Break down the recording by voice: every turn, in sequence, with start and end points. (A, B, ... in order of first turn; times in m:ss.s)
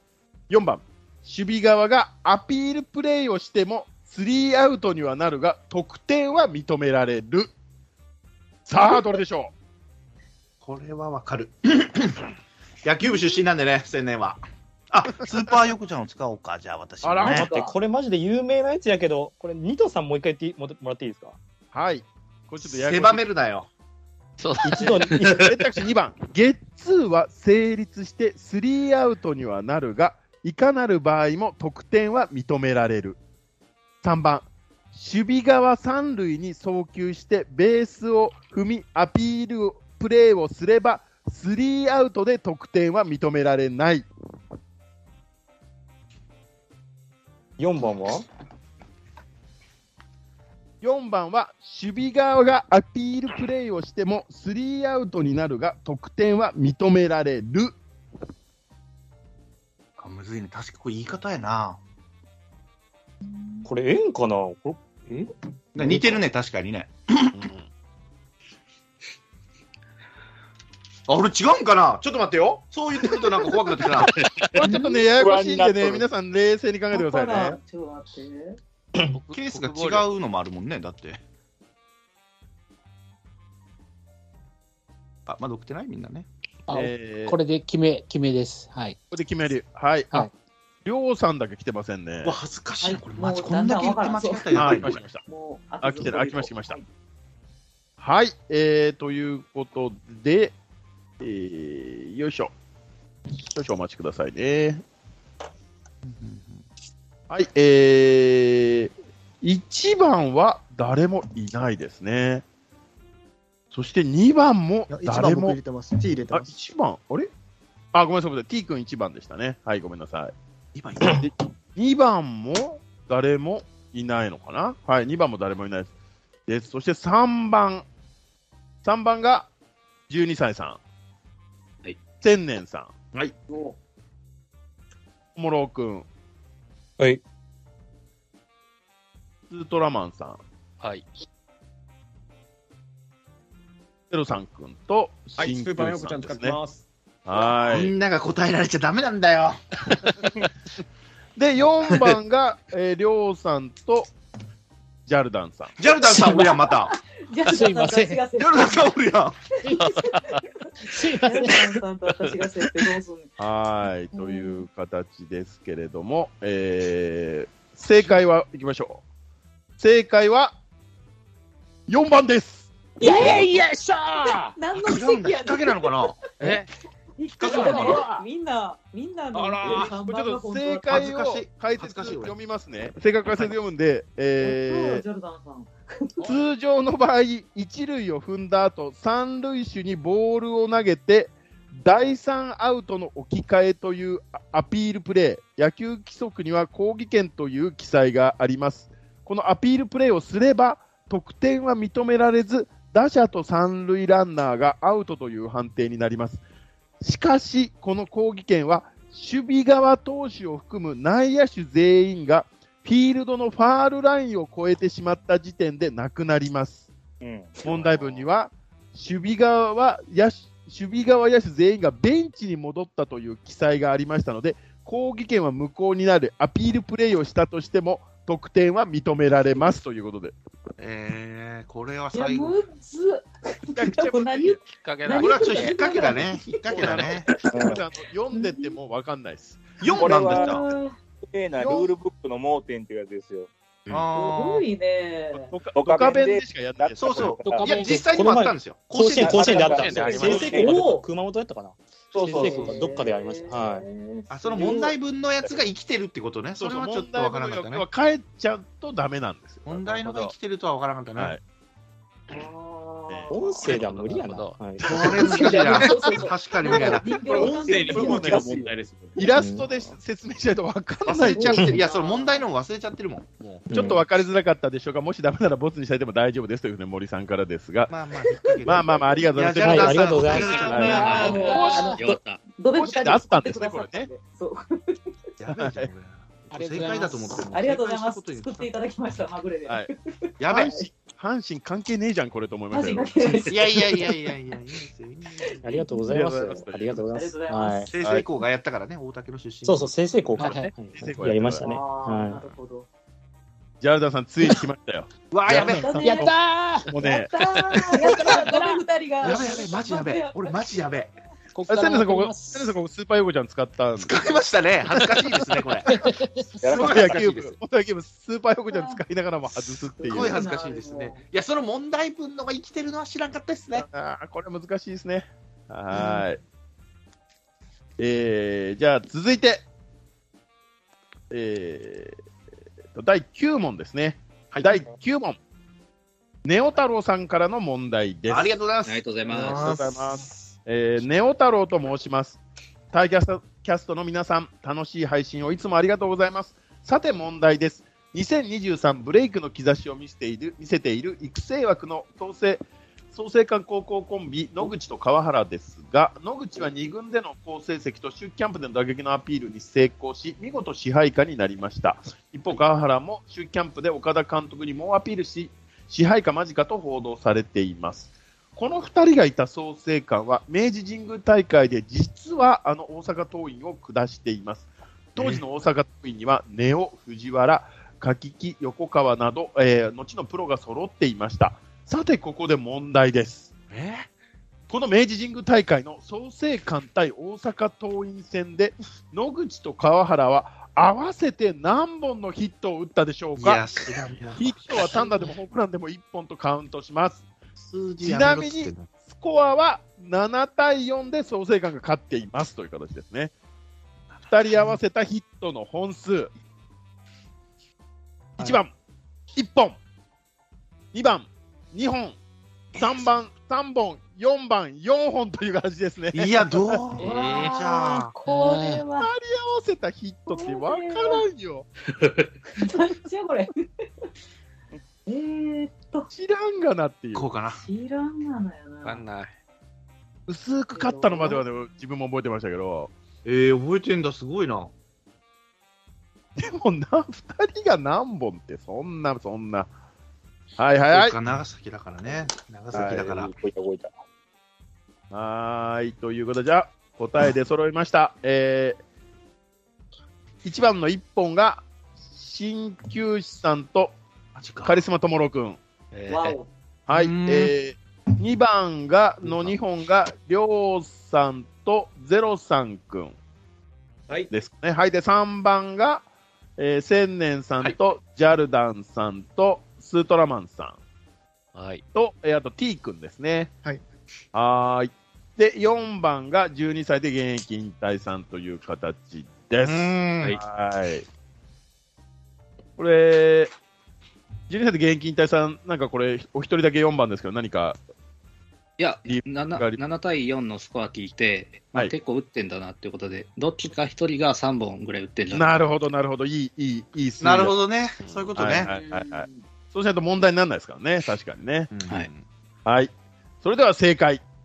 0:00.5-0:07.5 A
0:08.7-0:09.5 A
0:10.6-0:12.3 B
0:12.8-0:17.5 B
0:13.0-0:13.4 C
0:17.0-0:17.5 A
0:17.2-0:17.8 C
0:17.3-0:21.4 D
0:21.7-0:23.3 A
0:22.6-0:23.7 B
0:24.4-0:25.5 E
0:24.6-0:25.3 D
0:24.8-0:33.2 A
0:34.0-0:44.0 A
0:47.6-0:48.3 D
0:50.8-0:57.7 A
1:00.0-1:01.8 B
1:03.2-1:03.7 C
1:03.6-1:06.2 D
1:05.8-1:07.4 B
1:07.4-1:07.6 A
1:11.1-1:14.1 B
1:14.5-1:17.6 A
1:14.6-1:15.1 C
1:15.1-1:16.0 F
1:16.9-1:18.6 C
1:19.0-1:20.1 E
1:19.3-1:21.2 B
1:25.3-1:26.3 B
1:26.7-1:29.0 G
1:26.7-1:27.4 A
1:29.1-1:30.3 A
1:30.8-1:32.4 A
1:32.2-1:35.1 B
1:32.8-1:36.8 C
1:34.5-1:35.2 A
1:35.8-1:36.8 A
1:38.0-1:40.5 A
1:41.2-1:42.5 A
1:43.4-1:44.8 A
1:46.0-1:46.7 B
1:47.3-1:48.9 A
1:49.4-1:52.4 A
1:53.7-1:55.6 A
1:54.9-1:56.5 H
1:56.3-1:57.3 A
1:57.9-2:00.3 A
2:00.8-2:01.3 B
2:01.0-2:05.9 A
2:06.5-2:07.8 A
2:08.8-2:09.5 A
2:10.1-2:10.8 A
2:12.2-2:12.9 A
2:13.5-2:13.8 C
2:15.4-2:16.0 A
2:19.5-2:20.4 A
2:20.8-2:21.0 E
2:24.1-2:26.6 A
2:25.4-2:26.8 H
2:27.2-2:27.9 A
2:27.7-2:29.6 B
2:31.4-2:34.1 A
2:35.1-2:35.7 A
2:35.8-2:36.9 B
2:36.2-2:36.4 G
2:36.7-2:39.0 C
2:37.5-2:38.2 G
2:38.4-2:39.4 B
2:39.6-2:43.4 C
2:40.9-2:41.8 G
2:43.4-2:49.0 A
2:44.1-2:44.6 C
2:49.8-2:50.5 A
2:51.9-2:52.7 A
2:53.0-2:53.5 C
2:53.0-2:54.6 G
2:54.5-2:56.6 C
2:54.8-2:56.2 B
2:56.4-2:56.7 E
2:57.2-3:01.1 C
2:57.4-2:58.0 B
2:57.4-2:58.2 G
2:59.4-2:59.9 B
2:59.6-3:05.0 A
3:00.9-3:02.4 B
3:04.4-3:06.4 C
3:06.2-3:26.4 A
3:27.0-3:36.9 A
3:37.2-3:38.1 F
3:37.6-3:50.4 A
3:50.8-3:52.6 B
3:52.1-3:57.1 C
3:53.7-3:54.6 A
3:54.8-3:55.8 E
3:55.2-3:57.4 B
3:56.7-3:59.7 A
3:57.5-3:57.8 F
3:58.3-3:58.8 C
3:59.8-4:00.6 B
3:59.9-4:00.7 F
4:00.0-4:01.0 C
4:01.2-4:03.5 F
4:01.6-4:01.9 A
4:03.9-4:04.6 B
4:04.1-4:05.6 C
4:05.5-4:07.4 A
4:05.6-4:07.8 F
4:07.0-4:10.2 B
4:07.5-4:08.0 G
4:07.7-4:13.8 D
4:09.2-4:11.0 F
4:09.5-4:10.7 E
4:10.2-4:11.0 C
4:12.1-4:13.0 F
4:12.2-4:14.9 C
4:14.3-4:17.8 B
4:14.6-4:14.9 F
4:16.6-4:20.0 A
4:19.7-4:21.4 B
4:20.0-4:20.3 E
4:22.3-4:23.9 C
4:23.3-4:25.4 D
4:23.6-4:24.6 E
4:24.8-4:27.5 B
4:25.0-4:28.7 C
4:25.4-4:26.1 F
4:26.7-4:29.3 F
4:27.4-4:28.5 A
4:29.2-4:31.8 A
4:29.3-4:29.7 D
4:31.1-4:33.7 B
4:31.2-4:32.5 C
4:33.7-4:34.0 D
4:33.7-4:37.9 A
4:37.9-4:41.8 B
4:38.6-4:41.4 A
4:39.6-4:41.1 D
4:40.4-4:41.3 E
4:40.6-4:45.0 C
4:40.7-4:42.0 G
4:41.9-4:42.4 I
4:42.8-4:44.1 A
4:45.4-4:48.7 B
4:45.5-4:45.9 A
4:46.5-4:47.5 G
4:47.5-4:50.9 C
4:50.4-4:50.7 B
4:50.5-4:53.5 A
4:52.7-4:54.3 C
4:53.5-4:55.6 B
4:55.4-4:57.9 C
4:55.6-4:57.9 D
4:56.1-4:57.0 A
4:57.9-5:00.4 B
4:58.0-4:58.2 A
4:59.6-5:02.4 D
5:00.4-5:00.7 G
5:00.4-5:01.7 A
5:01.6-5:02.9 C
5:03.8-5:06.3 A
5:05.3-5:06.1 B
5:05.5-5:06.4 C
5:06.0-5:07.0 G
5:06.9-5:07.3 A
5:07.0-5:10.9 C
5:07.6-5:08.8 G
5:09.2-5:11.1 B
5:11.5-5:12.7 G
5:11.7-5:14.4 A
5:14.0-5:15.9 B
5:15.9-5:16.6 G
5:16.6-5:17.3 F
5:16.6-5:17.5 B
5:16.7-5:20.4 A
5:18.7-5:19.0 C
5:20.0-5:21.2 C
5:20.1-5:23.9 B
5:23.8-5:26.4 A
5:28.0-5:29.6 A
5:31.3-5:32.2 A
5:33.0-5:35.4 A
5:34.5-5:34.8 B
5:36.4-5:38.6 A
5:38.3-5:39.7 B
5:38.9-5:39.8 I
5:39.4-5:42.4 A
5:42.9-6:23.5 A
6:15.2-6:15.4 B
6:23.7-6:24.1 B
6:24.7-6:33.6 A
6:33.4-6:35.3 B
6:34.4-6:37.3 A
6:37.6-6:38.9 B
6:38.0-6:43.3 A
6:44.1-6:44.8 B
6:44.3-6:46.3 A
6:48.4-6:48.6 B
6:48.4-6:48.7 A
6:49.4-6:49.8 A
6:50.9-6:52.2 A
6:52.7-6:53.1 B
6:52.8-6:56.8 A
6:56.1-6:58.1 B
6:57.0-6:57.6 E
6:57.0-6:59.1 C
6:58.3-6:58.8 G
6:59.0-7:01.7 A
7:00.3-7:01.2 C
7:02.6-7:03.5 C
7:05.1-7:06.1 C
7:06.1-7:07.3 A
7:07.1-7:07.6 B
7:07.5-7:09.0 C
7:08.8-7:09.3 E
7:10.3-7:12.9 A
7:10.7-7:11.4 C
7:13.2-7:14.7 B
7:16.4-7:19.7 A
7:20.6-7:21.2 A
7:20.9-7:23.3 B
7:22.7-7:24.0 F
7:25.1-7:28.8 A
7:30.4-7:31.6 A
7:32.2-7:34.0 A
7:34.4-7:34.8 B
7:34.6-7:35.6 A
7:35.9-7:36.4 E
7:36.1-7:36.5 C
7:36.9-7:43.2 A
7:36.9-7:37.5 B
7:44.3-7:46.0 A
7:46.6-7:50.8 A
7:51.6-7:51.8 E
7:51.9-7:53.5 A
7:54.3-8:01.0 A
7:59.6-8:00.4 B
8:02.8-8:03.5 A
8:04.5-8:07.8 A
8:08.8-8:15.5 I
8:09.0-8:09.8 A
8:15.3-8:17.6 A
8:17.2-8:18.7 B
8:18.0-8:18.3 E
8:18.4-8:21.7 A
8:18.6-8:19.4 C
8:21.7-8:22.3 B
8:22.7-8:22.9 A
8:23.4-8:24.2 A